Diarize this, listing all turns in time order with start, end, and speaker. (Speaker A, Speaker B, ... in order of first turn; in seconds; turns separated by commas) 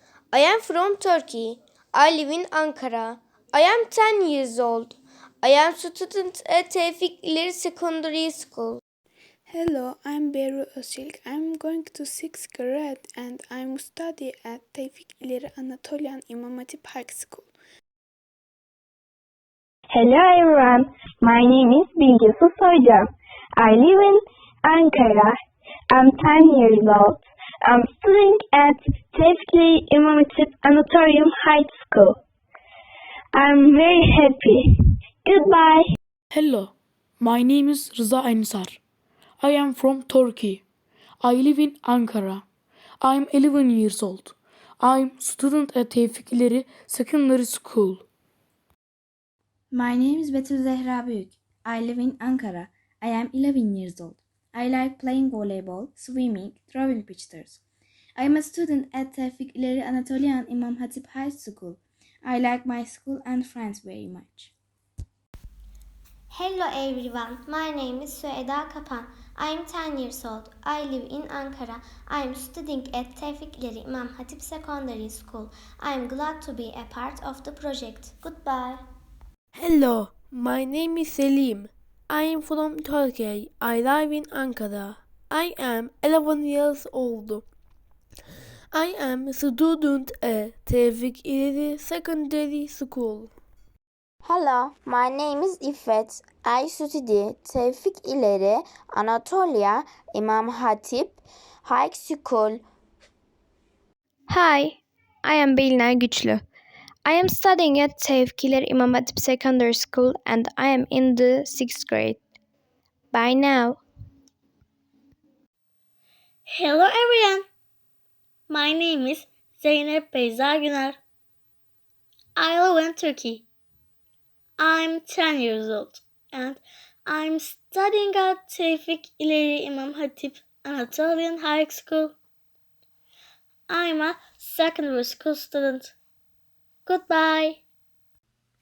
Speaker A: 0.3-8.8, Speaker B: 9.5-17.5, Speaker C: 19.9-25.4, Speaker C: 25.9-32.2, Speaker C: 33.3-35.9, Speaker D: 36.3-38.8, Speaker D: 39.4-40.6, Speaker D: 41.2-42.4, Speaker D: 43.0-48.0, Speaker E: 49.7-57.6, Speaker E: 58.2-64.5, Speaker F: 66.3-78.8, Speaker G: 79.5-87.5, Speaker G: 88.7-93.3, Speaker H: 94.2-102.6, Speaker I: 104.3-106.4, Speaker I: 107.0-112.2, Speaker I: 113.1-113.8, Speaker J: 116.5-117.5, Speaker J: 118.5-121.0, Speaker J: 122.3-123.4, Speaker J: 124.6-132.1, Speaker J: 133.7-135.9, Speaker J: 136.8-137.6